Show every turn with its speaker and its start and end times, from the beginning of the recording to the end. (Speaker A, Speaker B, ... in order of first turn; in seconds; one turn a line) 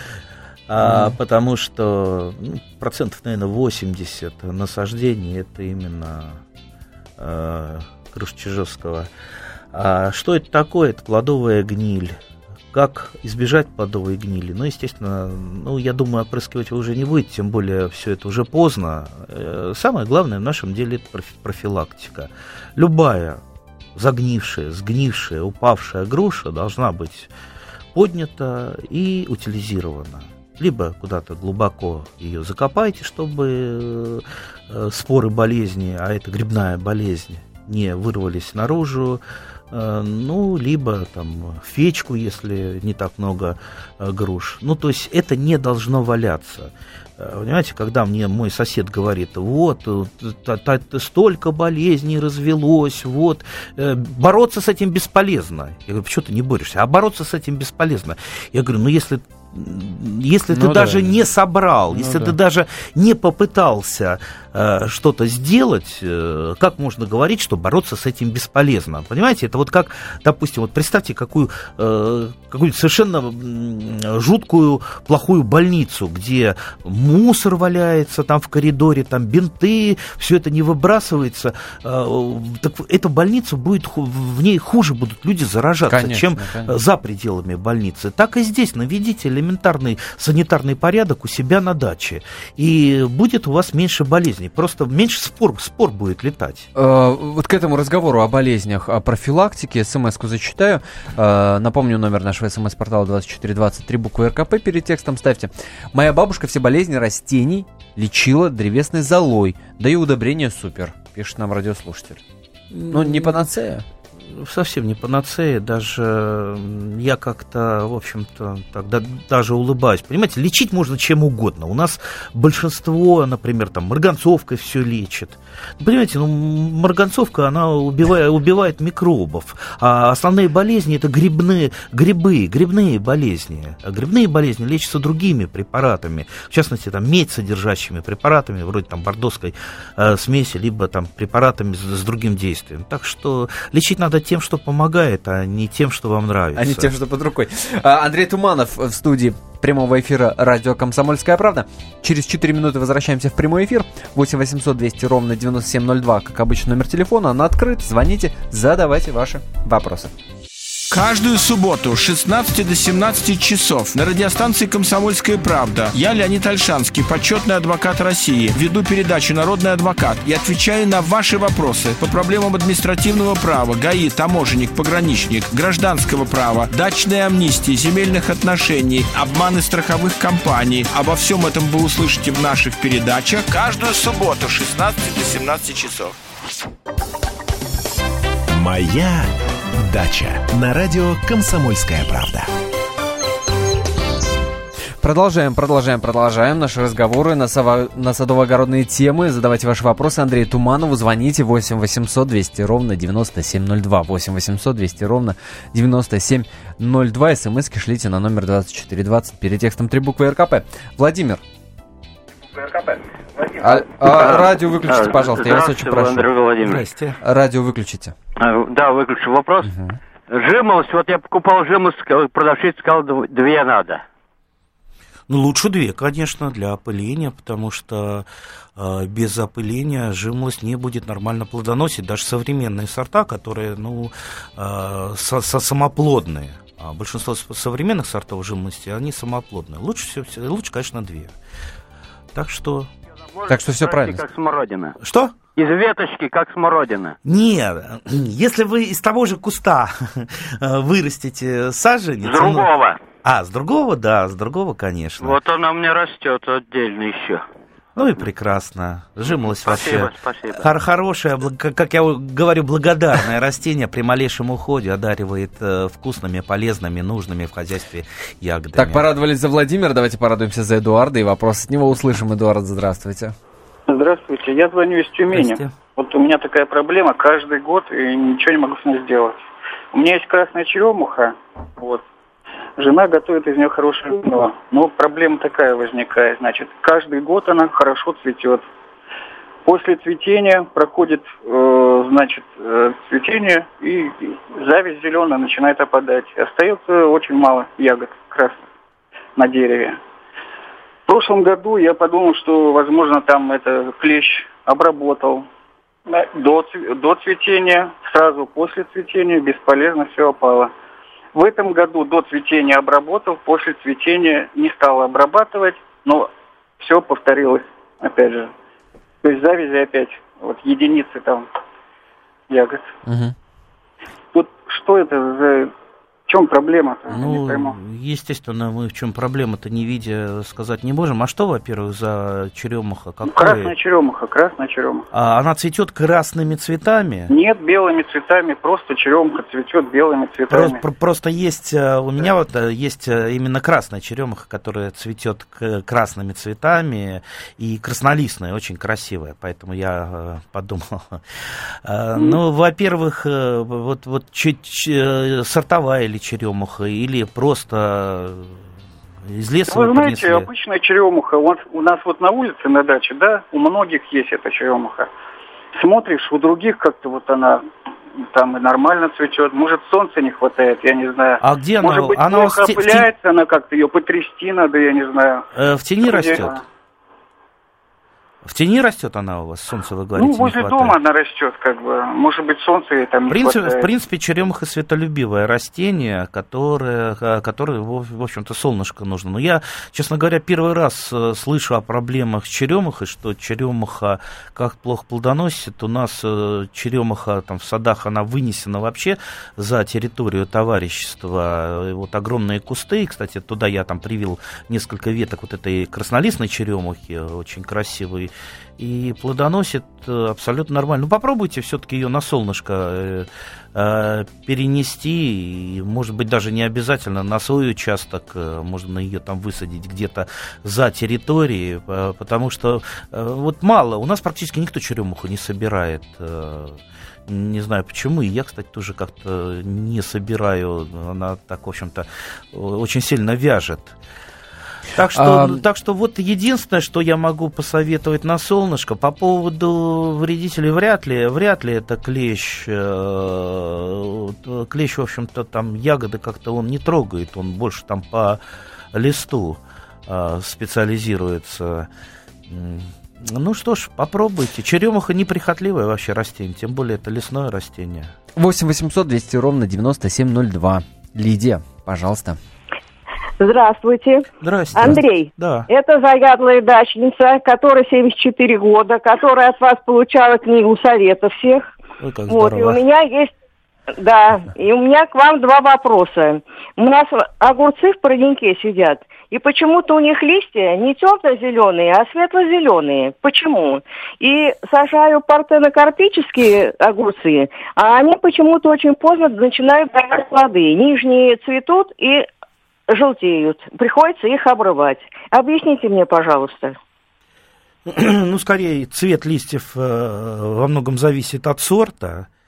Speaker A: 0.7-6.4
Speaker B: 0.8-1.1
Speaker A: 7.2-9.1
Speaker A: 9.7-12.2
Speaker A: 12.7-23.4
Speaker A: 23.9-27.3
Speaker A: 27.9-96.7
Speaker B: 60.5-61.2
Speaker B: 61.9-62.4
Speaker B: 85.9-86.7
Speaker B: 96.8-112.2
Speaker A: 112.7-113.3
Speaker B: 112.9-113.8
Speaker A: 114.2-146.9
Speaker B: 146.6-160.1
Speaker C: 160.9-186.1
Speaker D: 188.5-192.5
Speaker B: 195.0-211.4
Speaker B: 213.6-216.3
Speaker E: 215.2-216.8
Speaker A: 216.6-217.2
Speaker B: 217.2-218.1
Speaker E: 218.4-219.7
Speaker B: 219.6-220.0
Speaker E: 220.3-224.0
Speaker A: 225.3-228.2
Speaker A: 228.8-241.3
Speaker A: 242.3-242.9
Speaker E: 243.3-244.9
Speaker B: 243.5-244.2
Speaker A: 245.0-245.3
Speaker E: 245.6-247.1
Speaker A: 247.2-252.7
Speaker E: 252.2-253.0
Speaker A: 253.2-255.4
Speaker E: 255.2-257.4
Speaker A: 257.9-269.1
Speaker E: 259.7-260.6
Speaker B: 268.8-273.3
Speaker F: 273.9-279.4
Speaker A: 275.3-275.7
Speaker F: 279.9-282.0
Speaker F: 282.8-288.6
Speaker F: 289.6-298.6
Speaker F: 299.4-300.0
Speaker F: 301.1-305.5
Speaker F: 306.1-310.7
Speaker F: 311.3-318.5
Speaker F: 319.2-321.5
Speaker F: 322.5-322.9
Speaker B: 323.1-323.3
Speaker F: 324.3-325.7
Speaker F: 326.3-327.8
Speaker A: 327.1-333.7
Speaker F: 333.2-335.1
Speaker A: 335.1-337.3
Speaker F: 337.3-340.8
Speaker A: 340.5-351.2
Speaker A: 351.8-358.5
Speaker A: 359.3-360.5
Speaker F: 359.7-365.1
Speaker F: 365.7-367.6
Speaker F: 368.2-375.4
Speaker A: 371.4-373.1
Speaker A: 375.5-376.6
Speaker F: 376.0-376.6
Speaker A: 378.4-381.0
Speaker F: 380.2-383.9
Speaker A: 383.3-433.9
Speaker A: 434.9-448.4
Speaker B: 435.1-435.6
Speaker A: 448.9-451.9
Speaker A: 452.5-458.1
Speaker B: 458.4-462.4
Speaker G: 463.4-471.7
Speaker A: 464.4-465.7
Speaker A: 472.0-472.8
Speaker G: 472.3-473.3
Speaker G: 474.0-492.3
Speaker G: 492.9-496.8
Speaker A: 497.9-502.3